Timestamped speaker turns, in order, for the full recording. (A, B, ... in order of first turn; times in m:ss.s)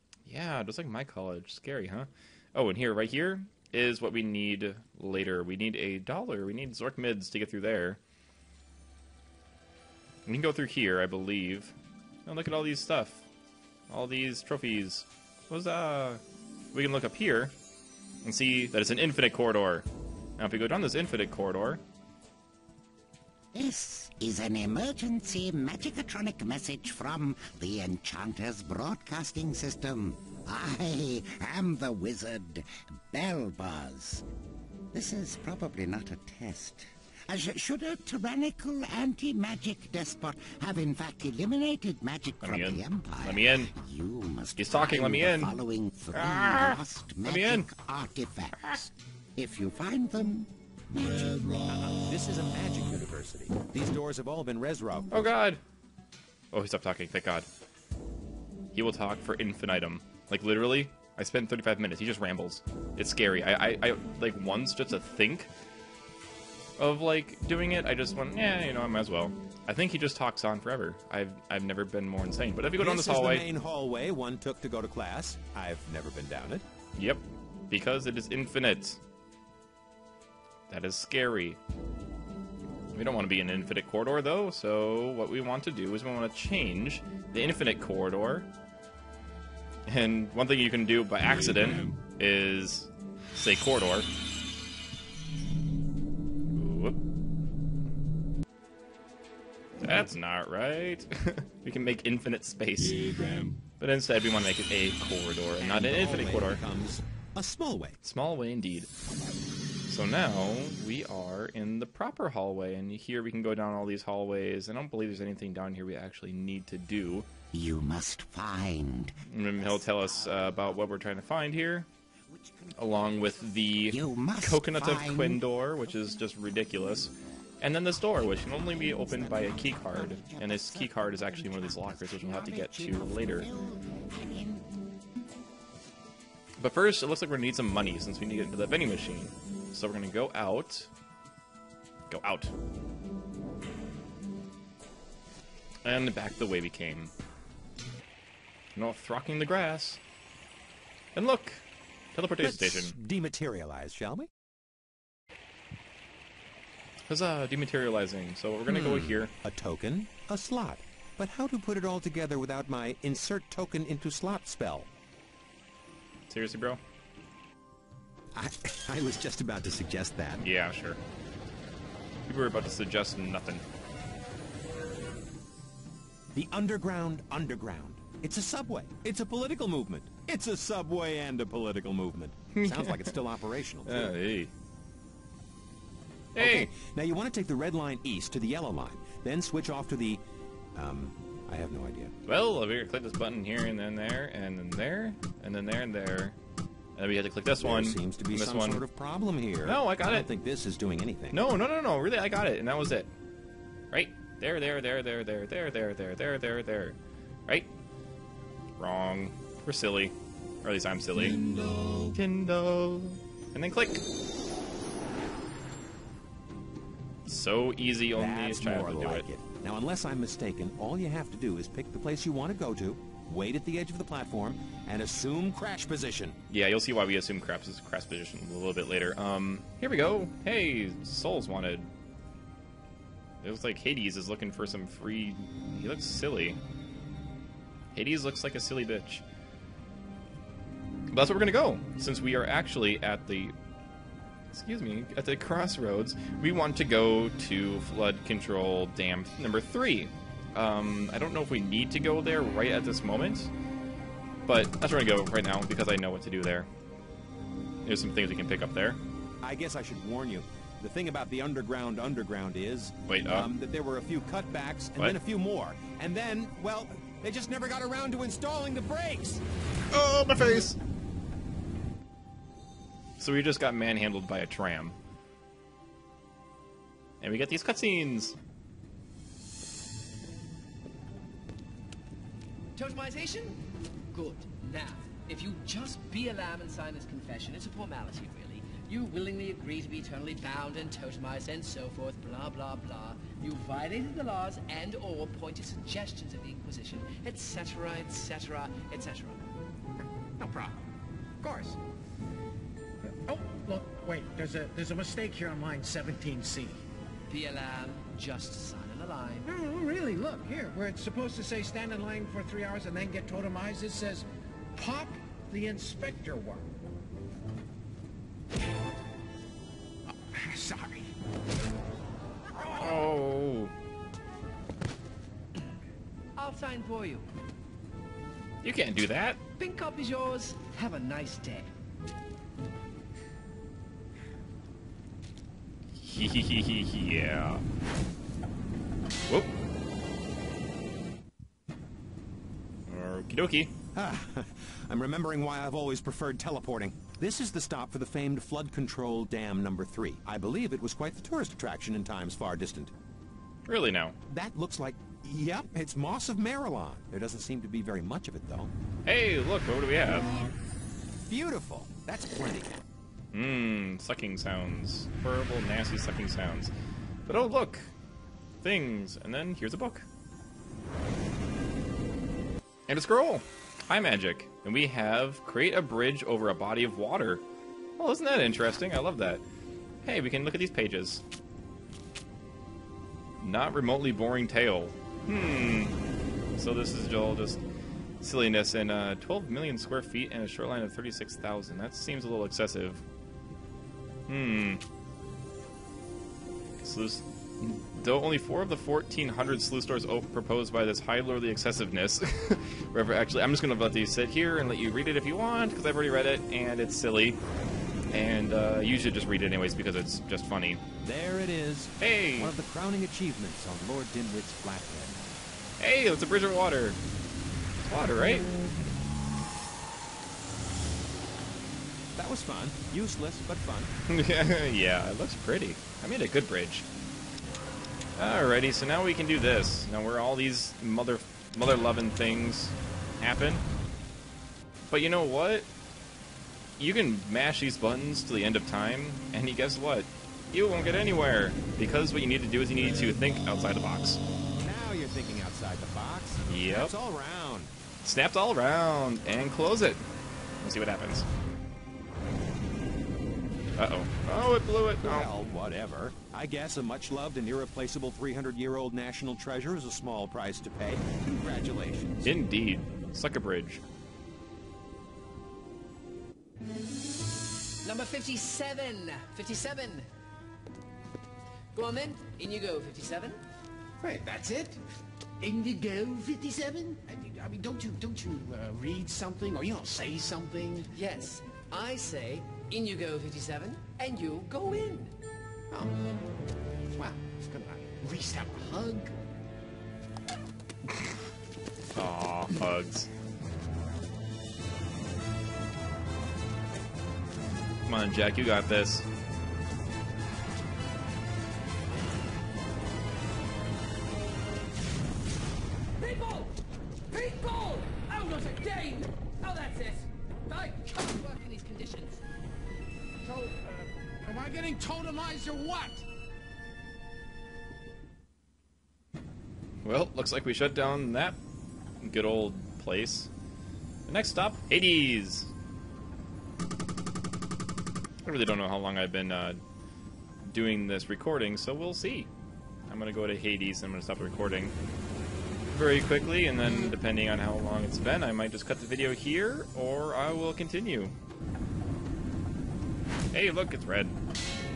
0:00.3-0:08.0 A
0:10.3-0:11.8 A
0:12.3-0:13.3 A
0:13.9-0:16.2 A
0:16.7-0:17.5 A
0:18.2-0:19.9 A
0:20.4-0:21.8 A
0:23.5-0:34.2 B
0:34.9-0:51.6 B
0:42.4-0:43.7 A
0:44.6-0:45.5 A
0:46.1-0:47.7 A
0:51.6-0:55.3 C
0:55.1-0:55.6 A
0:56.5-0:57.5 A
0:58.7-1:05.5 A
1:06.8-1:13.5 A
1:12.8-1:16.6 C
1:17.0-1:19.0 A
1:20.7-1:21.6 A
1:22.9-1:28.5 A
1:29.9-1:34.1 A
1:36.5-1:37.0 A
1:39.8-1:46.6 A
1:45.6-1:48.0 C
1:48.0-1:48.9 A
1:49.9-1:57.3 A
1:57.5-2:01.1 B
1:59.3-2:01.9 A
2:02.3-2:06.2 B
2:02.8-2:13.5 A
2:08.0-2:14.6 B
2:16.6-2:20.9 A
2:22.1-2:22.5 A
2:25.8-2:27.1 A
2:28.8-2:30.0 A
2:31.2-2:33.0 A
2:32.4-2:34.3 C
2:37.1-2:39.3 A
2:38.7-2:44.9 C
2:46.3-2:46.8 A
2:48.3-2:50.4 C
2:50.4-2:51.0 A
2:52.3-2:53.6 A
2:56.3-3:04.2 C
3:02.5-3:03.2 A
3:03.9-3:04.5 A
3:06.4-3:06.7 A
3:06.4-3:10.2 C
3:10.8-3:12.1 C
3:12.3-3:16.4 A
3:17.0-3:18.8 A
3:17.6-3:21.4 C
3:19.6-3:20.3 A
3:21.3-3:23.1 A
3:23.9-3:27.0 A
3:28.8-3:34.0 A
3:37.3-3:39.2 A
3:38.2-3:46.4 C
3:46.5-3:51.9 A
3:53.4-3:56.6 A
3:57.9-3:59.2 A
4:01.1-4:03.5 A
4:04.5-4:13.5 A
4:14.5-4:16.7 A
4:17.8-4:19.0 A
4:19.4-4:29.4 C
4:23.1-4:23.5 A
4:29.9-4:30.8 A
4:33.2-4:35.0 A
4:37.2-4:38.4 A
4:42.8-4:43.6 D
4:44.1-4:59.5 D
5:00.4-5:00.9 E
5:01.4-5:01.8 E
5:03.1-5:06.8 E
5:07.3-5:09.5 D
5:09.5-5:16.7 E
5:20.1-5:21.1 E
5:22.5-5:23.0 E
5:22.8-5:23.7 A
5:26.4-5:27.3 D
5:28.6-5:29.4 A
5:29.6-5:31.7 D
5:36.0-5:37.6 A
5:42.9-5:43.7 A
5:43.9-5:52.9 C
5:53.7-5:54.2 A
5:54.3-5:58.7 C
5:59.0-6:00.3 A
6:01.3-6:02.8 C
6:03.3-6:06.7 A
6:07.3-6:07.9 A
6:08.6-6:10.1 A
6:12.9-6:17.4 A
6:18.0-6:19.4 A
6:20.0-6:21.2 A
6:23.4-6:26.0 A
6:26.6-6:27.6 A
6:28.2-6:33.0 A
6:34.3-6:34.8 A
6:36.8-6:47.4 A
6:48.1-6:50.8 A
6:51.0-6:55.2 C
6:52.0-6:52.6 A
6:55.8-6:57.0 A
6:57.8-6:58.5 A
7:02.2-7:03.9 C
7:04.1-7:06.9 A
7:08.2-7:13.6 A
7:14.9-7:15.7 A
7:16.8-7:24.2 A
7:24.6-7:27.7 C
7:26.5-7:26.9 A
7:28.0-7:30.1 A
7:30.6-7:31.3 A
7:33.8-7:35.3 A
7:35.0-7:42.4 C
7:42.2-7:43.8 A
7:47.8-7:50.1 D
7:51.7-7:53.4 D
7:54.0-7:54.8 E
7:55.4-8:00.9 E
8:00.9-8:05.1 D
8:05.7-8:06.0 E
8:06.9-8:09.1 E
8:12.0-8:13.1 A
8:17.9-8:19.1 A
8:26.0-8:26.6 D
8:27.1-8:32.2 D
8:33.2-8:36.1 E
8:39.8-8:41.4 A
8:42.0-8:43.3 A
8:44.1-8:45.5 A
8:48.2-8:49.6 A
8:50.4-8:52.3 A
8:52.9-8:54.7 A
8:55.7-9:01.1 A
9:03.3-9:04.2 A